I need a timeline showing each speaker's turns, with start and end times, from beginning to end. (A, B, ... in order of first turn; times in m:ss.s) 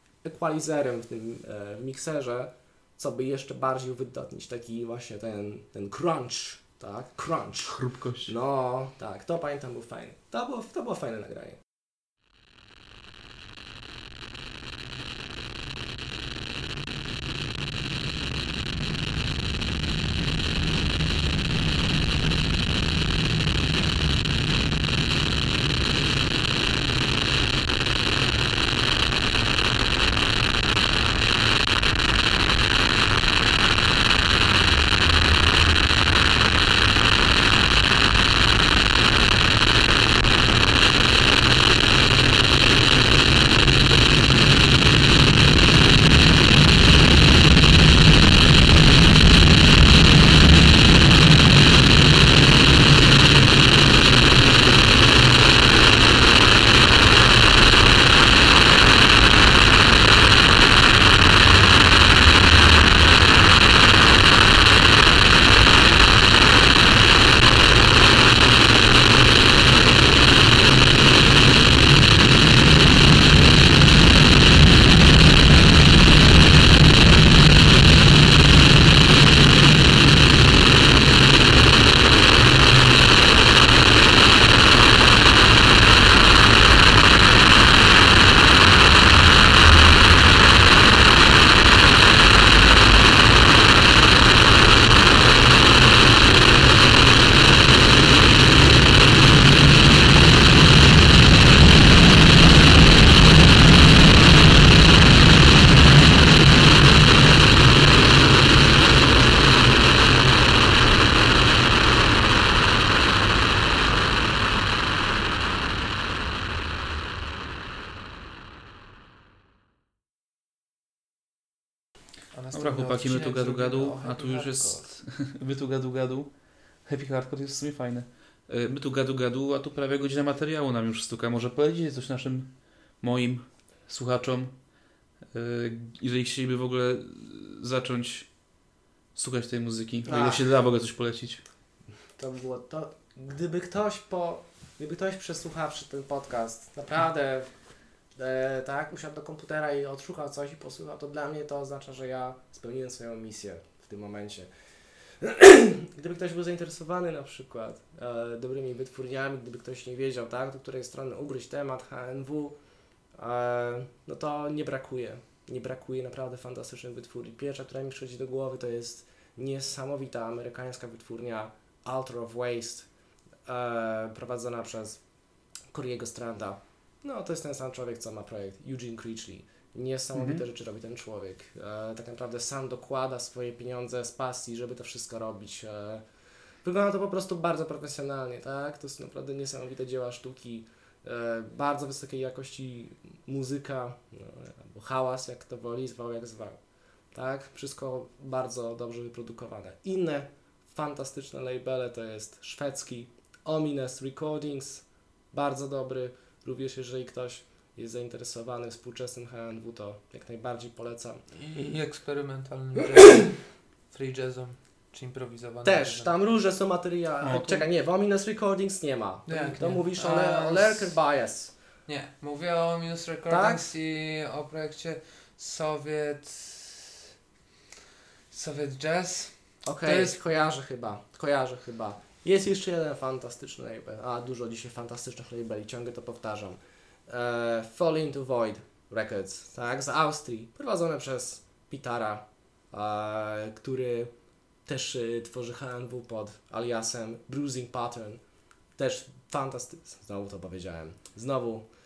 0:00.2-0:11.6 A
0:07.7-0:08.3 B
2:02.3-2:04.8 C
2:02.5-2:14.6 B
2:15.3-2:18.3 B
2:19.2-2:21.4 B
2:20.0-2:20.4 A
2:22.2-2:27.5 A
2:28.2-2:34.5 A
2:35.2-2:42.6 A
2:43.2-2:52.9 A
2:53.5-2:55.0 A
2:55.7-3:06.0 A
3:00.2-3:00.4 B
3:06.6-3:16.6 A
3:17.1-3:31.2 A
3:31.4-3:36.1 C
3:35.6-3:41.5 A
3:37.2-3:37.7 B
3:39.3-3:40.9 C
3:41.9-3:47.0 C
3:43.3-3:43.6 A
3:48.3-3:50.2 C
3:49.6-4:04.1 A
4:04.7-4:08.2 A
4:08.8-4:11.6 A